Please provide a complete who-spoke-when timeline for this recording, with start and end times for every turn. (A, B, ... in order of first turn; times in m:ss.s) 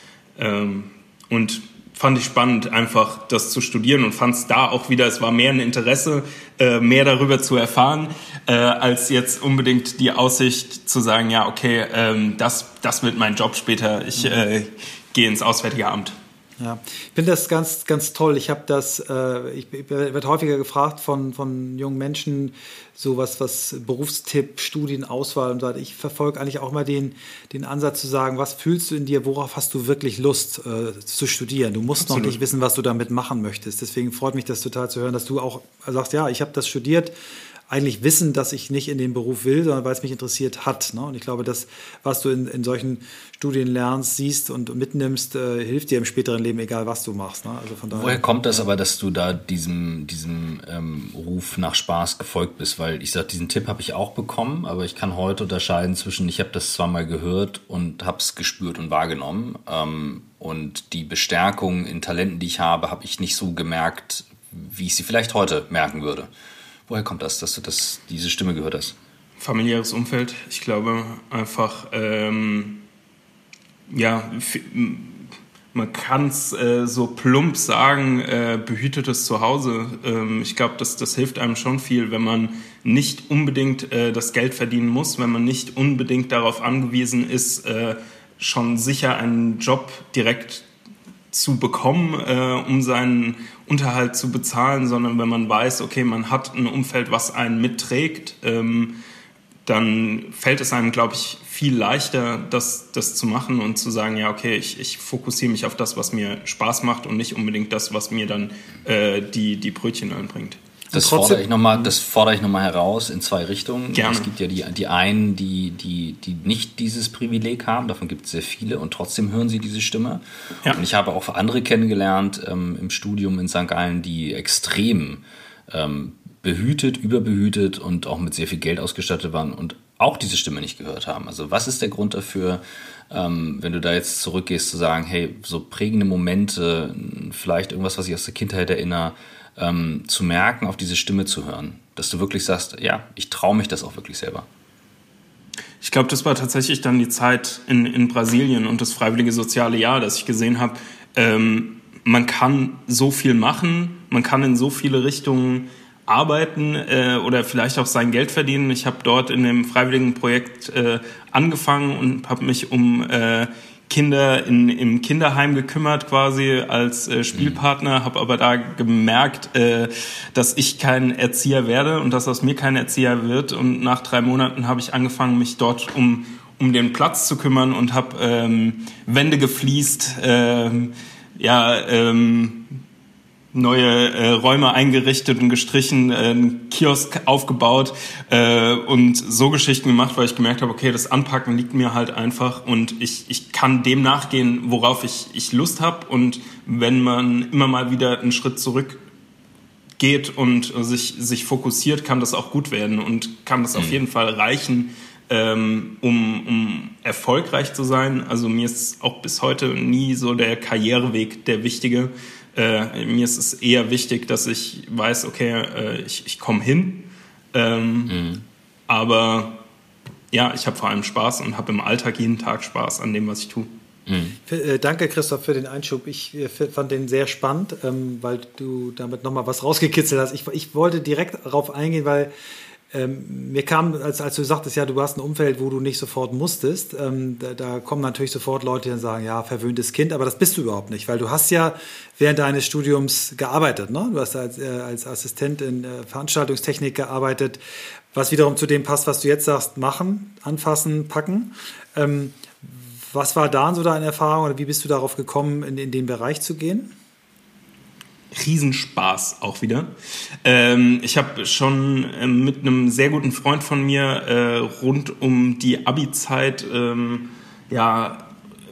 0:00.4-0:16.2 A
0:14.2-0:14.4 B
0:16.6-0:37.1 B
0:32.0-0:32.4 A
0:37.7-0:48.6 B
0:47.9-1:06.3 C
1:06.9-1:09.0 C
1:09.4-1:12.8 A
1:13.9-1:30.7 A
1:31.3-1:39.0 A
1:39.7-1:50.6 A
1:50.9-1:51.4 B
1:50.9-2:24.5 C
1:53.9-1:54.3 A
2:25.8-3:02.7 A
2:47.4-2:47.6 C
3:03.5-3:19.0 A
3:20.0-3:38.2 A
3:38.1-3:38.4 C
3:38.9-3:39.6 A
3:40.3-3:43.7 A
3:44.1-3:44.4 C
3:44.5-3:52.3 B
3:52.9-4:07.6 B
4:08.1-4:16.9 B
4:18.3-4:19.9 A
4:20.4-4:28.3 A